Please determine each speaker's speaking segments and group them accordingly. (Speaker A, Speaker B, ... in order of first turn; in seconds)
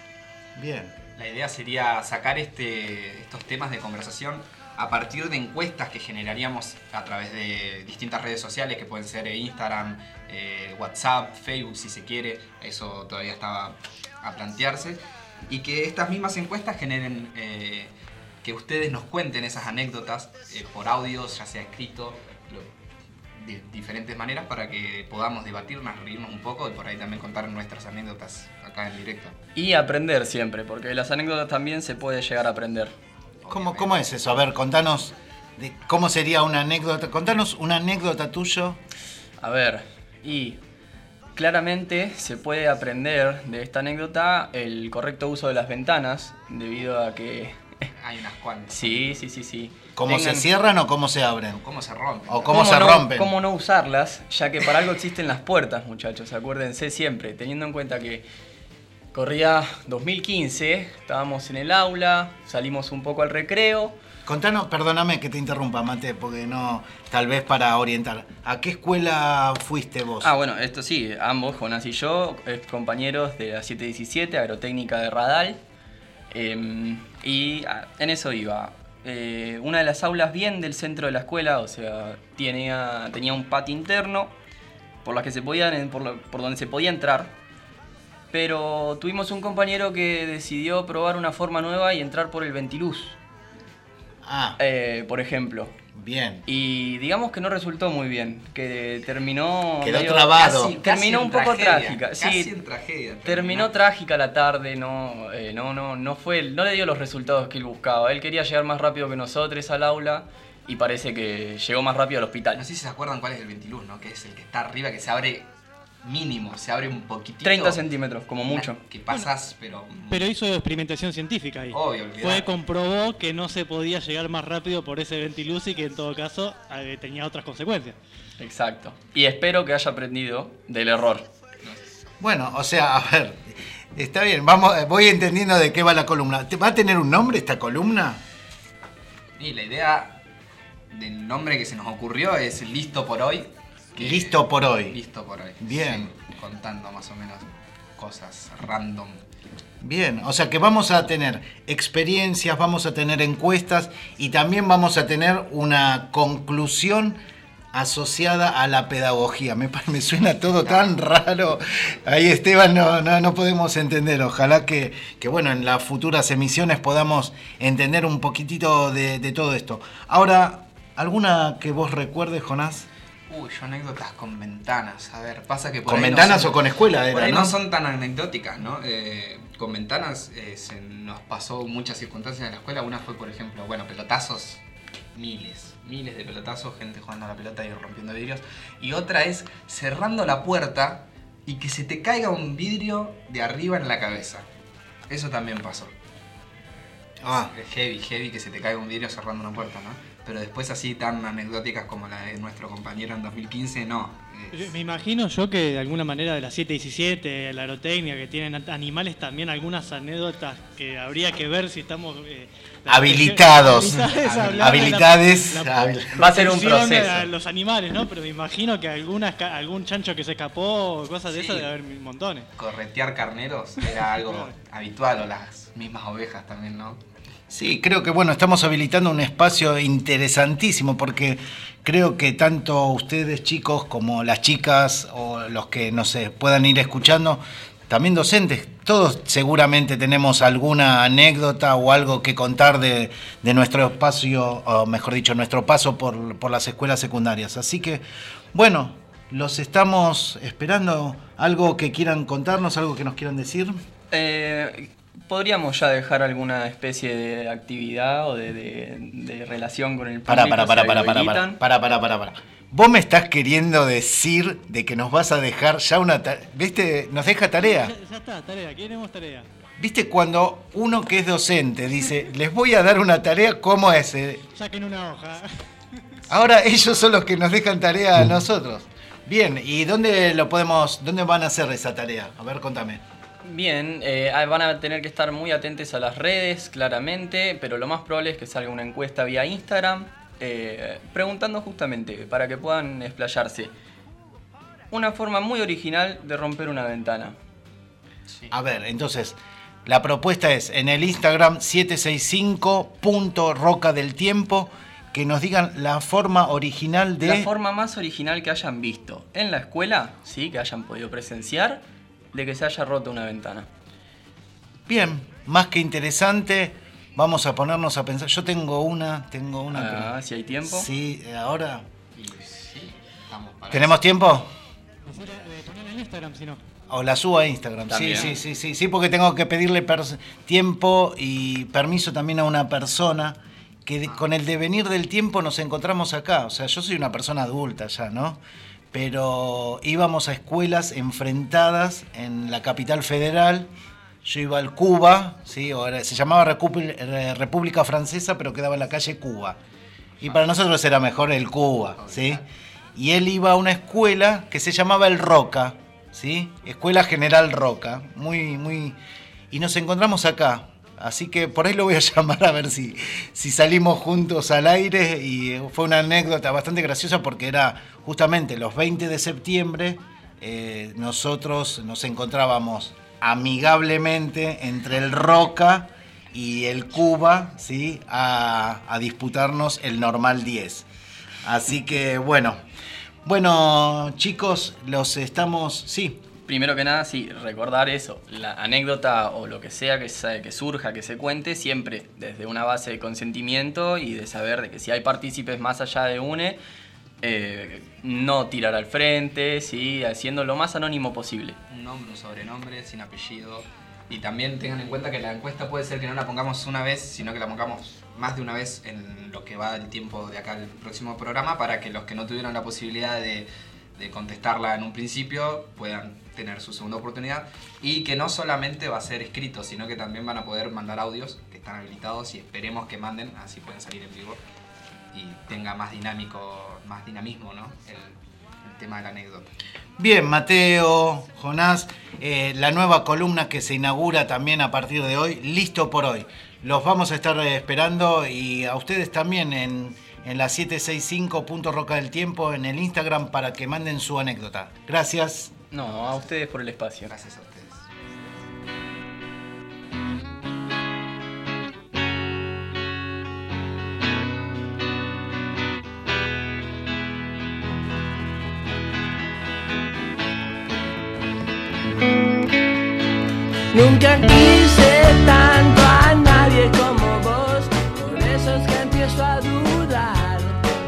Speaker A: 0.6-0.9, 33.5-38.8, 50.0-51.6, 52.3-53.3, 64.2-70.3, 94.2-94.6, 96.0-96.5, 99.8-100.8, 132.2-138.2, 144.0-144.9, 145.6-146.1, 149.8-157.2, 157.7-172.9, 175.9-177.6, 197.2-197.5, 212.9-217.3, 227.5-253.8, 260.3-267.9, 269.8-274.4, 276.3-283.0, 298.5-307.5, 314.9-321.9, 323.7-324.5, 326.9-338.4, 338.9-343.7, 344.2-349.6, 350.2-352.4, 352.9-359.0, 359.5-380.9, 381.4-382.6, 383.2-386.3, 430.0-445.5
Speaker B: 1.1-22.7, 23.4-29.4, 33.4-34.4, 48.0-49.1, 50.0-50.5, 51.6-52.8, 100.4-103.7, 112.5-115.5, 116.0-117.8, 118.4-120.3, 121.7-122.5, 131.6-132.1, 139.4-140.2, 140.9-149.2, 160.6-161.0, 173.3-194.4, 195.1-195.9, 197.5-204.8, 214.3-214.9, 221.3-221.7, 222.6-227.0, 322.1-324.1, 334.0-334.3, 350.2-350.7, 351.8-352.4, 401.7-424.4, 425.1-429.5, 445.8-446.2, 447.1-447.9
Speaker C: 29.6-33.0, 39.4-40.6, 41.3-47.9, 48.7-49.8, 52.5-58.2, 59.1-64.0, 70.2-75.6, 76.3-84.3, 85.0-87.3, 88.3-93.2, 94.6-95.8, 96.5-102.5, 103.2-112.6, 117.4-118.8, 128.4-131.3, 254.1-261.6, 283.4-293.7, 294.9-297.4, 307.2-313.7, 319.7-320.9, 327.9-328.4, 386.5-396.6, 397.2-401.6, 445.7-447.1
Speaker D: 120.1-128.0, 204.5-222.5, 223.8-224.5, 267.6-269.5, 274.5-275.4, 325.1-326.6
Speaker E: 463.7-470.6